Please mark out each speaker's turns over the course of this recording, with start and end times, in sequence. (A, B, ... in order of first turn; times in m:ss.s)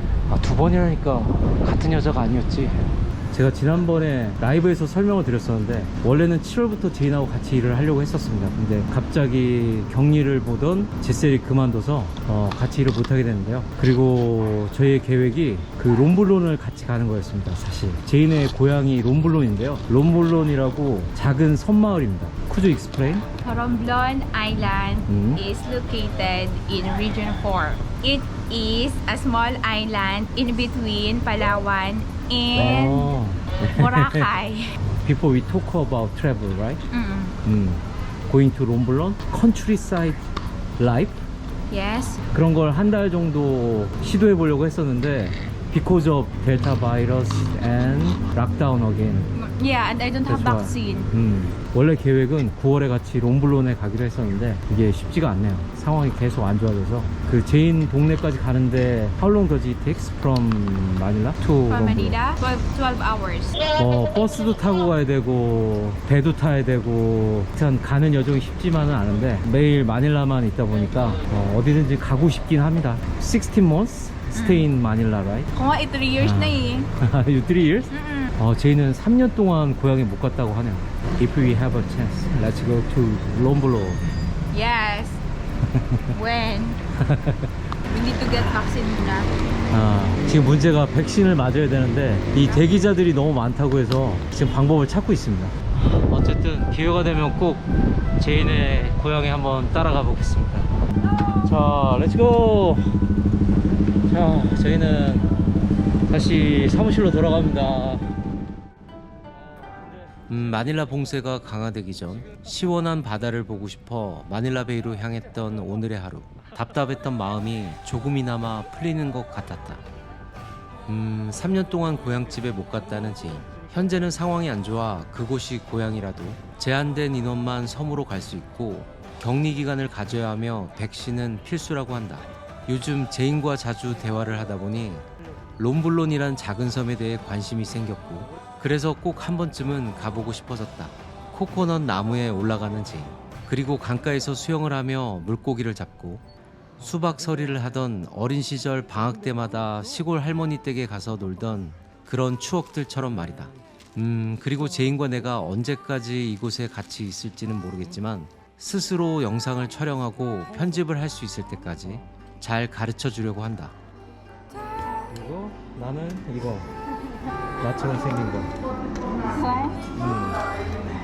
0:00.3-0:23.2 A
0:23.4-0:33.1 B
0:25.1-0:25.4 A
0:32.5-0:34.3 A
0:33.7-0:34.8 B
0:35.0-0:36.8 A
0:36.9-0:37.4 B
0:37.4-0:40.2 A
0:40.8-0:41.2 A
0:41.7-0:42.2 B
0:42.3-0:49.3 A
0:49.3-0:51.1 B
0:50.2-1:02.2 A
1:01.7-1:03.6 B
1:03.8-1:15.5 A
1:14.3-1:14.7 B
1:15.5-1:16.9 B
1:16.2-1:24.2 A
1:17.9-1:18.3 B
1:24.5-1:25.2 B
1:25.7-1:26.1 A
1:26.1-1:26.8 B
1:27.0-1:27.5 A
1:27.9-1:29.3 B
1:29.7-1:37.6 A
1:38.2-1:40.7 A
1:41.4-1:42.9 A
1:44.1-1:45.3 A
1:46.1-1:48.1 A
1:49.7-1:51.5 A
1:50.3-1:59.8 C
2:00.9-2:26.2 C
2:26.8-2:43.7 C
2:40.9-2:42.0 A
2:45.1-2:46.7 A
2:47.6-2:48.5 A
2:49.3-2:49.8 B
2:49.9-2:50.4 A